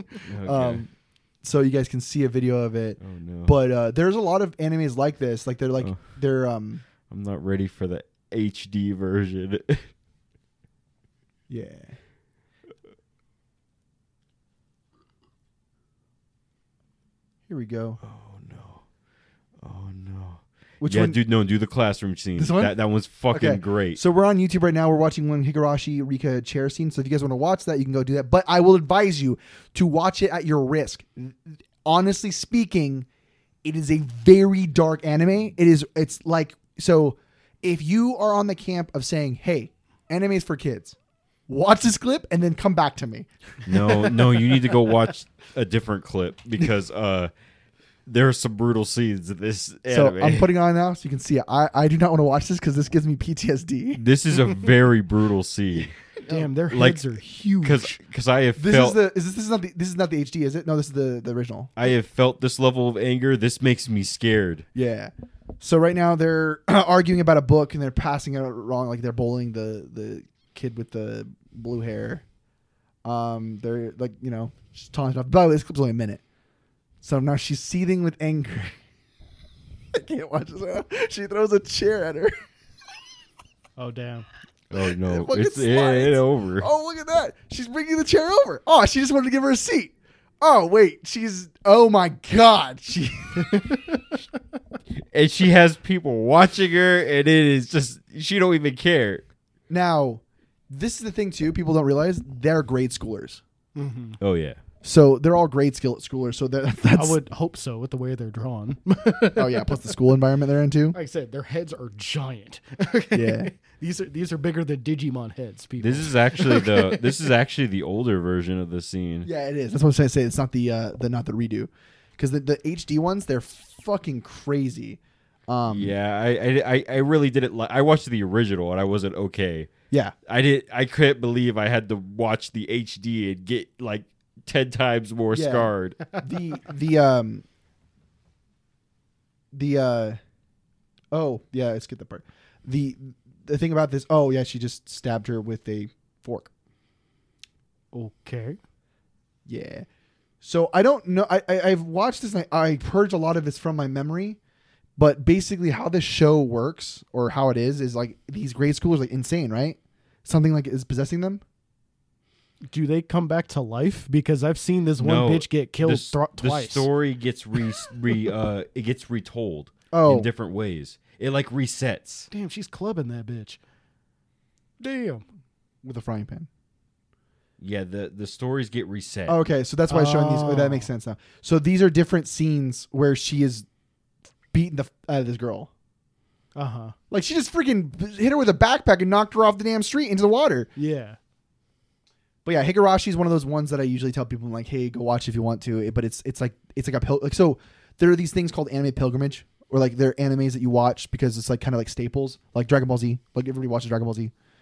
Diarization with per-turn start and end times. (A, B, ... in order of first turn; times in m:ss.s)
0:00.2-0:00.8 A
0:00.4-0:06.8 B
0:03.0-0:03.5 A
0:07.1-0:09.9 A
0:11.5-0:12.0 B
0:17.5-0:18.0 B
0:18.0-0:18.8 A
0:19.6-0:24.0 A
0:20.8-0:21.2 B
0:22.4-0:22.7 B
0:23.3-0:33.0 B
0:33.6-0:41.0 B
0:41.5-0:43.3 B
0:43.6-0:47.3 A
0:48.0-0:50.5 A
0:49.9-0:54.0 B
0:53.9-0:55.9 A
0:56.2-0:58.0 C
0:56.7-0:59.0 A
0:58.6-1:01.7 B
1:01.8-1:04.6 A
1:04.7-1:12.2 B
1:13.0-1:16.2 B
1:17.0-1:18.8 B
1:19.9-1:22.4 B
1:23.8-1:24.2 C
1:24.7-1:26.7 A
1:25.0-1:33.8 B
1:33.5-1:34.0 C
1:35.0-1:39.2 A
1:39.7-1:43.4 B
1:43.7-1:44.2 C
1:44.2-1:44.6 A
1:44.8-1:47.2 B
1:46.9-1:49.9 C
1:49.4-1:51.0 B
1:50.9-1:57.2 C
1:53.1-1:53.5 B
1:55.8-1:59.3 A
1:59.2-2:05.9 B
2:05.6-2:09.7 A
2:10.2-2:16.0 A
2:15.3-2:17.4 B
2:19.5-2:20.2 B
2:21.1-2:26.5 B
2:27.9-2:28.6 C
2:29.5-2:29.8 B
2:30.4-2:34.4 B
2:35.0-2:41.4 B
2:42.7-2:46.9 C
2:45.0-2:52.3 A
2:49.9-2:50.3 B
2:52.3-2:53.6 C
2:54.8-2:55.2 C
2:55.8-2:56.5 B
2:57.6-2:59.4 A
2:59.3-3:03.6 B
2:59.9-3:00.9 C
3:04.5-3:05.7 B
3:06.5-3:06.9 C
3:07.1-3:10.7 B
3:10.8-3:11.2 C
3:12.4-3:24.3 B